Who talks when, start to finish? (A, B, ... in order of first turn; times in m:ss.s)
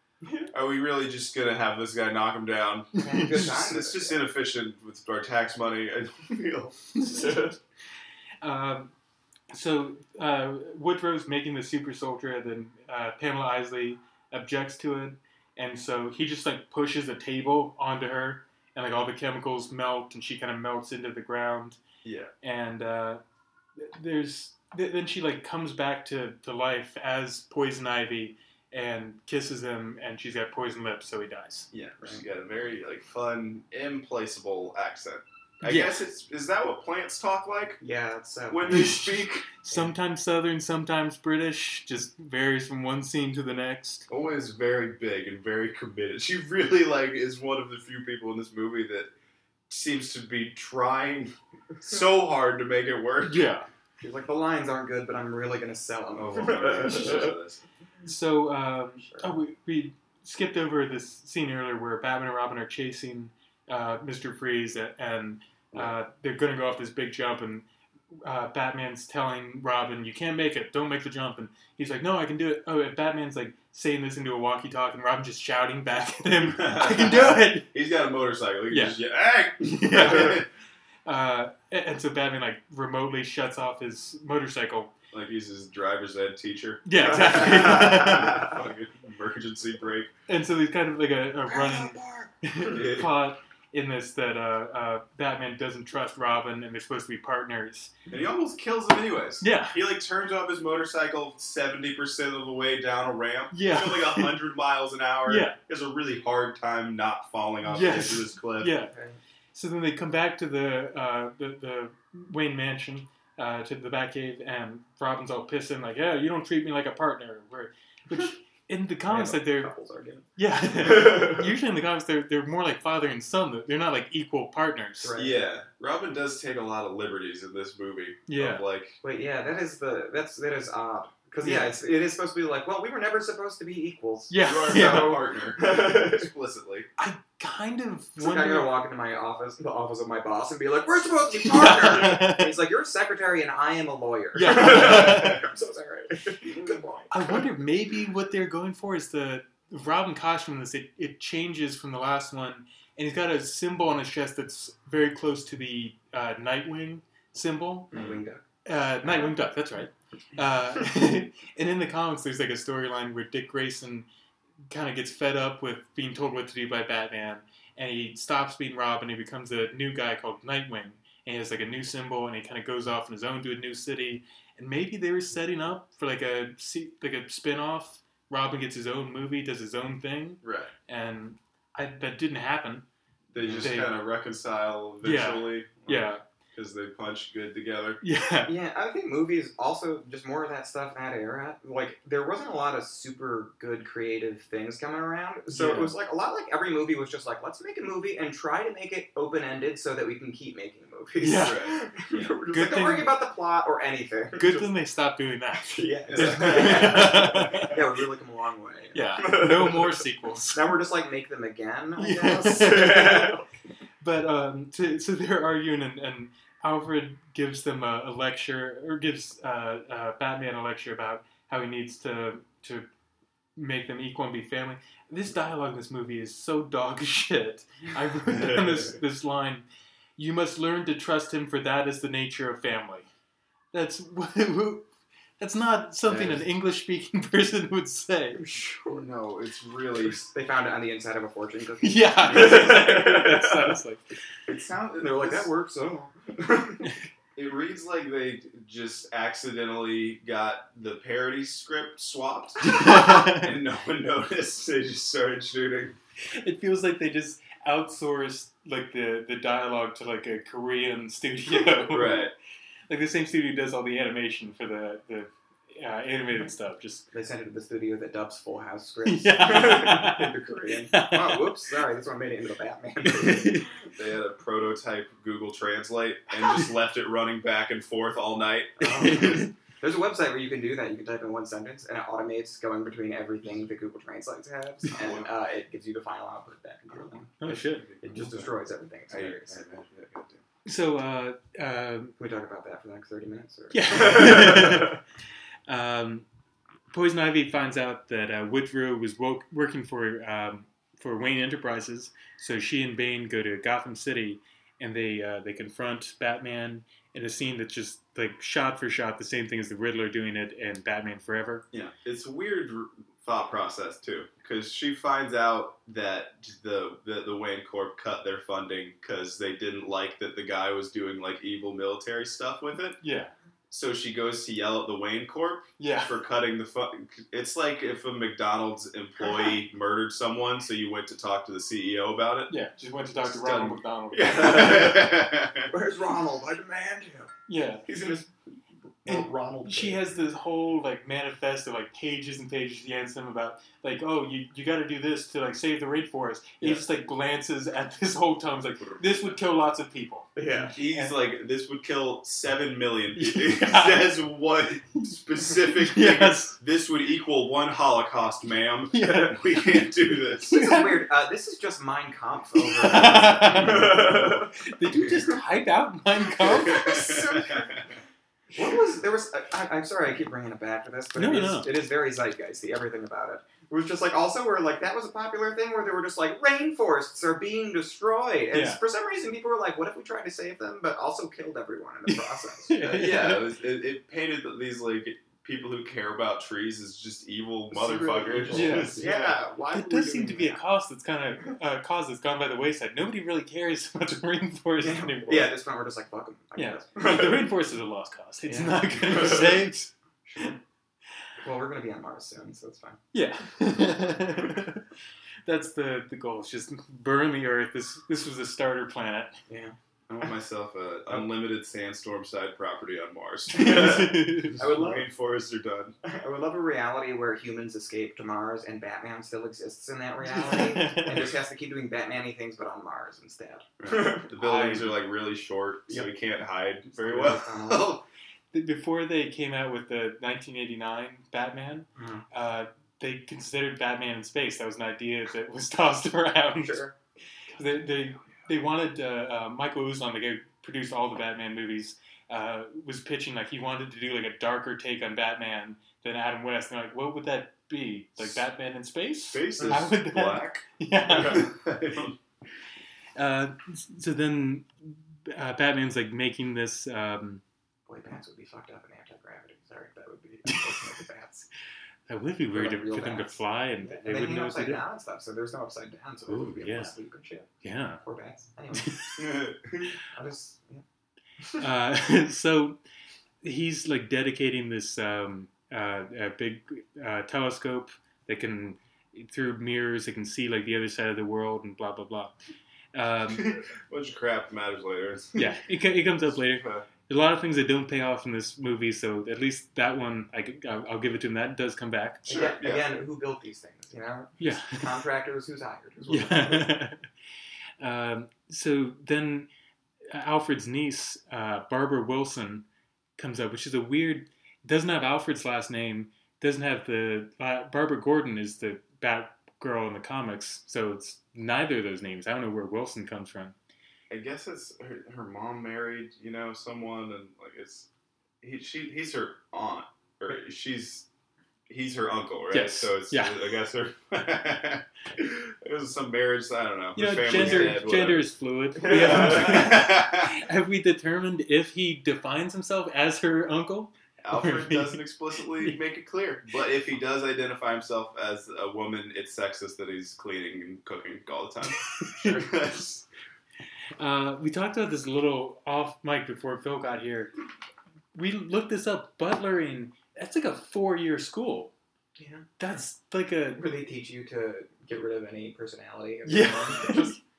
0:00.2-0:00.5 A
0:00.5-0:07.5 B
0:03.0-0:04.2 A
0:03.0-0:03.5 C
0:07.0-0:07.5 C
0:07.1-0:07.5 A
0:08.4-0:08.9 C
0:09.5-0:21.8 C
0:22.0-0:22.3 B
0:22.4-0:23.2 C
0:23.8-0:31.7 C
0:31.7-0:37.8 B
0:35.6-0:36.0 C
0:37.8-0:39.0 A
0:38.5-0:39.5 B
0:38.7-0:44.1 C
0:44.1-0:49.1 B
0:49.7-0:53.4 B
0:53.2-0:53.7 C
0:54.0-0:57.4 A
0:56.2-0:57.6 B
0:58.0-1:17.7 C
0:59.1-0:59.4 A
1:16.4-1:20.5 B
1:18.7-1:19.0 C
1:19.6-1:20.4 C
1:21.0-1:24.9 C
1:25.1-1:30.1 B
1:26.9-1:28.5 C
1:30.3-1:37.9 C
1:31.5-1:32.3 A
1:32.7-1:33.1 B
1:38.1-1:48.7 B
1:39.4-1:39.8 C
1:43.5-1:44.4 C
1:45.3-1:45.6 C
1:47.6-1:48.9 C
1:48.9-1:49.2 A
1:49.5-1:59.7 C
1:59.1-2:00.3 A
2:00.4-2:05.1 C
2:00.8-2:01.5 A
2:05.0-2:05.5 A
2:05.2-2:09.0 B
2:08.3-2:08.6 C
2:09.0-2:16.3 A
2:11.4-2:11.8 C
2:14.3-2:15.2 C
2:14.4-2:16.9 B
2:17.0-2:18.8 C
2:18.2-2:27.4 A
2:21.4-2:22.5 C
2:24.4-2:25.4 C
2:27.1-2:37.9 C
2:37.9-2:38.4 A
2:37.9-2:38.2 B
2:38.6-2:44.1 C
2:39.0-2:39.3 A
2:44.7-3:02.8 C
3:00.4-3:00.7 B
3:03.3-3:08.0 B
3:03.4-3:03.6 A
3:03.6-3:04.0 C
3:05.0-3:06.2 C
3:08.0-3:08.5 C
3:08.4-3:24.7 A
3:15.5-3:15.9 C
3:21.2-3:21.6 C
3:21.4-3:22.4 B
3:22.5-3:23.1 C
3:24.4-3:27.8 C
3:25.6-3:33.5 A
3:26.1-3:27.8 B
3:28.9-3:30.8 C
3:32.0-3:33.4 C
3:34.0-3:42.9 C
3:43.6-3:49.7 C
3:48.3-3:49.0 B
3:50.2-3:53.1 C
3:53.7-3:58.4 C
3:56.1-3:56.4 B
3:58.4-3:59.1 A
3:58.9-4:00.2 B
4:00.0-4:03.8 A
4:01.8-4:04.0 C
4:04.5-4:05.5 B
4:05.0-4:06.9 A
4:07.4-4:16.0 B
4:12.6-4:13.5 C
4:16.4-4:22.3 C
4:21.8-4:22.3 B
4:22.9-4:27.1 C
4:27.1-4:33.7 A
4:29.0-4:30.4 C
4:30.9-4:31.5 C
4:33.0-4:33.7 C
4:34.0-4:39.4 B
4:38.8-4:39.5 C
4:38.8-4:49.8 A
4:45.0-4:45.3 B
4:47.4-4:47.9 C
4:47.5-4:48.5 B
4:49.1-4:50.4 B
4:50.7-4:52.2 C
4:52.2-4:54.9 A
4:53.7-4:55.0 C
4:55.7-4:56.3 C
4:56.9-5:11.6 C
5:11.7-5:23.0 B
5:23.0-5:23.3 C
5:23.7-5:32.5 B
5:25.8-5:26.1 C
5:32.5-5:35.1 C
5:33.2-5:35.7 B
5:34.5-5:35.0 A
5:35.7-5:37.3 A
5:37.5-5:37.9 C
5:37.9-5:38.3 A
5:39.0-5:40.0 A
5:39.1-5:51.2 C
5:48.8-5:49.4 B
5:50.4-5:50.8 A
5:50.7-6:00.6 B
5:53.2-5:54.1 C
5:55.0-5:56.6 C
5:58.9-5:59.9 C
6:00.5-6:01.1 C
6:00.5-6:04.5 A
6:02.6-6:07.2 C
6:06.4-6:07.9 A
6:06.5-6:08.0 B
6:08.5-6:22.8 A
6:11.2-6:11.7 C
6:18.5-6:18.8 C
6:22.1-6:23.5 C
6:22.8-6:29.4 B
6:27.7-6:30.6 A
6:28.5-6:29.0 C
6:29.7-6:35.5 C
6:34.8-6:37.5 A
6:36.6-6:40.5 C
6:38.5-6:39.6 A
6:40.3-6:40.6 A
6:41.4-6:43.0 A
6:43.1-6:44.9 C
6:45.4-6:49.4 C
6:49.5-6:49.8 A
6:50.1-6:56.0 B
6:53.5-6:54.6 C
6:53.6-6:55.1 A
6:56.0-7:04.3 A
7:00.3-7:01.3 C
7:03.8-7:08.0 B
7:04.4-7:04.9 C
7:07.0-7:08.0 A
7:08.5-7:16.8 C
7:12.0-7:12.2 A
7:16.6-7:16.9 A
7:17.5-7:31.5 C
7:29.3-7:32.2 B
7:33.2-7:37.4 C
7:37.9-7:41.5 A
7:40.5-7:40.8 C
7:42.1-7:44.8 C
7:42.5-7:47.5 A
7:46.3-7:46.9 C
7:47.6-7:48.0 C
7:48.0-7:49.1 A
7:48.7-7:49.2 C
7:49.2-7:49.9 B
7:50.1-7:50.8 A
7:51.6-7:52.8 C
7:53.4-8:02.4 C
8:02.9-8:03.6 C
8:03.3-8:05.5 B
8:05.4-8:12.3 C
8:06.1-8:06.9 B
8:12.3-8:16.8 A
8:12.3-8:12.9 B
8:14.4-8:15.0 C
8:16.1-8:17.1 C
8:17.8-8:19.5 C
8:20.1-8:22.7 C
8:23.2-8:33.6 C
8:34.1-8:37.9 B
8:38.4-8:41.1 B
8:41.7-8:48.3 B
8:42.5-8:43.4 C
8:47.0-8:55.0 C
8:47.3-8:47.8 A
8:48.8-8:50.4 B
8:48.8-8:49.7 A
8:54.2-9:03.1 B
9:02.0-9:02.5 C
9:04.0-9:07.3 C
9:08.1-9:11.7 C
9:12.2-9:12.5 A
9:12.6-9:13.6 C
9:13.6-9:17.2 A
9:16.2-9:17.2 C